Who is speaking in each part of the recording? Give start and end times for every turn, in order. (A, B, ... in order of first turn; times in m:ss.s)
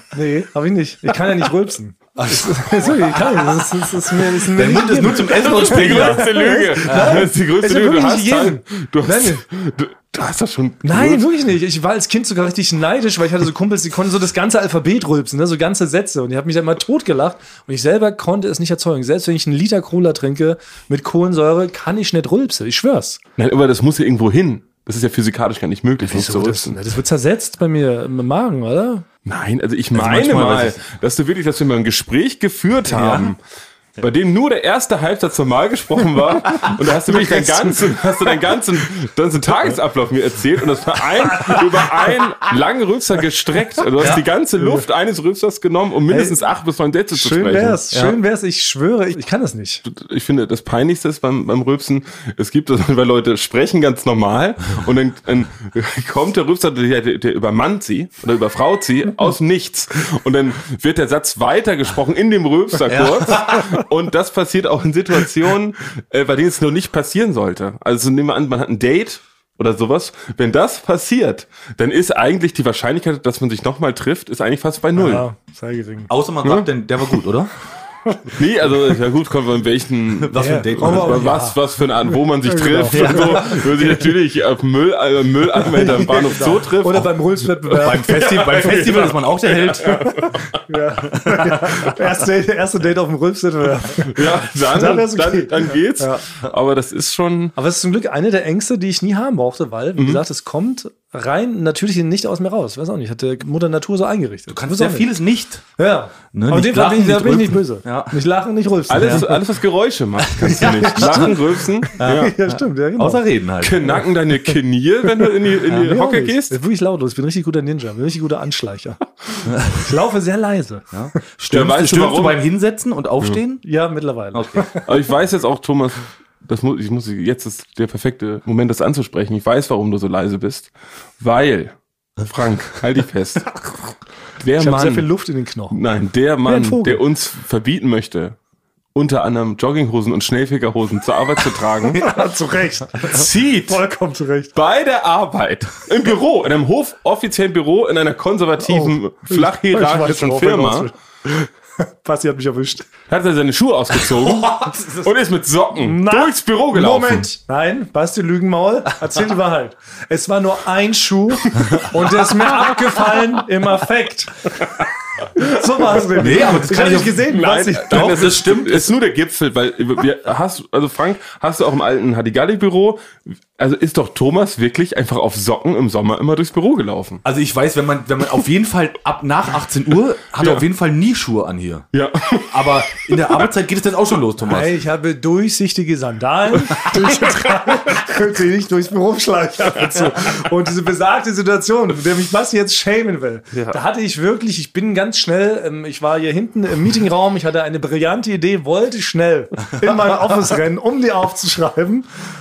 0:00.1-0:09.4 A
0:02.2-0:03.6 B
0:04.2-0:06.3 B
0:05.2-0:11.3 C
0:06.8-0:07.2 B
0:10.8-0:23.2 A
0:23.4-0:26.8 C
0:26.0-0:29.0 A
0:29.2-0:33.4 C
0:29.9-0:30.8 B
0:32.9-0:33.3 B
0:34.0-0:47.8 C
0:37.0-0:38.3 A
0:41.3-0:41.6 A
0:44.6-0:44.8 A
0:46.1-0:46.4 A
0:47.1-0:49.8 A
0:47.9-0:48.2 B
0:49.8-1:15.2 C
1:02.9-1:03.7 B
1:14.9-1:16.1 A
1:16.1-1:17.5 B
1:16.4-1:16.7 C
1:18.3-1:27.2 C
1:20.2-1:21.3 B
1:20.4-1:21.6 A
1:22.4-1:23.6 A
1:22.9-1:23.9 B
1:25.7-1:29.1 A
1:27.7-1:30.6 C
1:27.8-1:30.1 B
1:29.8-1:36.2 A
1:31.1-1:31.9 B
1:34.0-1:37.5 C
1:37.6-1:45.1 A
1:40.0-1:40.2 C
1:44.5-1:45.6 B
1:45.8-1:49.4 A
1:46.3-1:48.2 B
1:48.9-1:52.3 C
1:48.9-1:49.2 B
1:50.2-1:51.4 B
1:50.5-1:53.2 A
1:52.0-1:54.0 B
1:53.6-1:56.6 C
1:55.2-1:59.0 A
1:59.5-1:59.8 B
1:59.7-2:00.9 A
2:00.9-2:03.6 B
2:01.5-2:02.4 C
2:03.6-2:04.8 A
2:04.3-2:04.7 B
2:04.8-2:13.6 C
2:14.4-2:15.1 C
2:14.6-2:15.8 A
2:15.7-2:18.4 C
2:16.4-2:17.0 A
2:18.9-2:22.1 C
2:21.9-2:24.5 A
2:23.0-2:23.8 C
2:24.5-2:30.9 C
2:28.6-2:32.9 A
2:33.1-2:37.3 C
2:34.2-2:35.0 B
2:35.8-2:44.7 A
2:45.3-2:48.3 A
2:46.2-2:47.2 B
2:47.2-2:57.2 C
2:47.9-2:48.9 B
2:57.2-3:01.9 B
3:01.9-3:03.5 C
3:02.5-3:04.8 B
3:04.5-3:22.1 A
3:13.5-3:13.8 C